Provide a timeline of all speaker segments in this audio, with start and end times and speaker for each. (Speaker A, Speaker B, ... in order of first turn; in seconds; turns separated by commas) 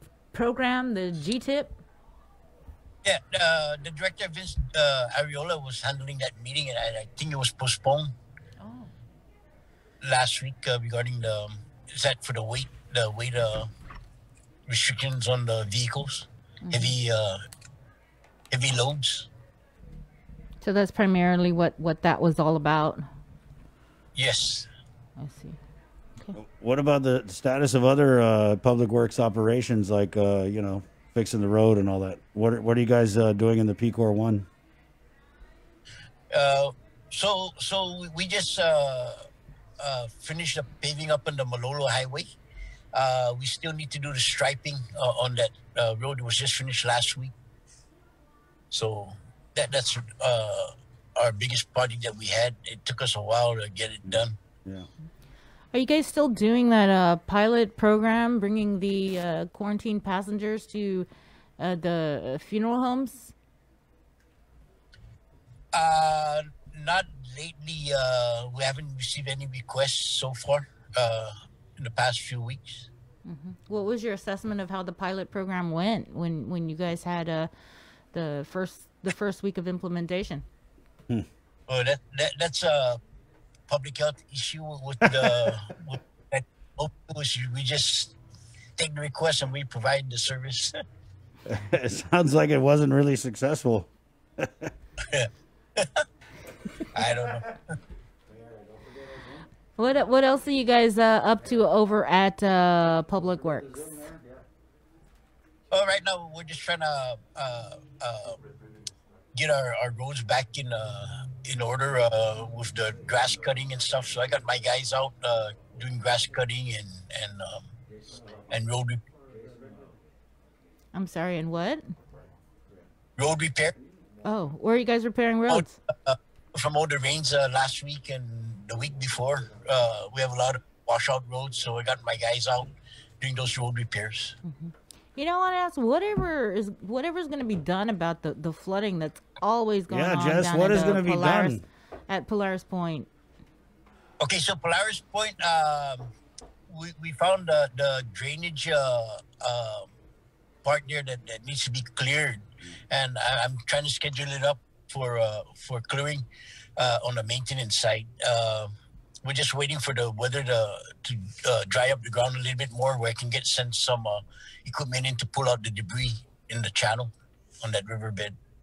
Speaker A: 0.3-1.8, Speaker B: 3.0-8.1, Speaker A: 8.6-8.9, Speaker B: 10.0-13.7, Speaker B: 14.7-17.4, Speaker A: 16.6-16.9, Speaker B: 18.5-19.3, Speaker A: 20.6-23.0, Speaker B: 24.1-24.7, Speaker A: 25.2-25.6, Speaker C: 26.3-34.5, Speaker B: 36.3-39.3, Speaker B: 39.8-42.3, Speaker B: 42.9-47.3, Speaker B: 48.7-54.4, Speaker C: 54.0-54.9, Speaker A: 55.7-61.1, Speaker A: 61.6-63.3, Speaker B: 65.7-72.9, Speaker A: 73.2-77.5, Speaker A: 78.1-80.4, Speaker B: 81.7-83.0, Speaker B: 83.7-88.1, Speaker C: 85.0-85.5, Speaker B: 88.8-90.7, Speaker C: 91.5-93.9, Speaker C: 94.4-94.7, Speaker B: 95.0-96.0, Speaker B: 96.9-97.6, Speaker A: 99.8-104.1, Speaker B: 105.7-108.4, Speaker B: 109.3-117.7, Speaker B: 118.5-119.0, Speaker A: 120.9-121.9, Speaker B: 123.2-123.7, Speaker A: 124.2-125.8, Speaker B: 125.5-134.3, Speaker A: 134.4-143.1, Speaker C: 139.9-141.6, Speaker B: 144.2-146.1, Speaker B: 146.7-149.9, Speaker B: 150.6-156.2, Speaker B: 156.8-158.7, Speaker B: 159.2-168.3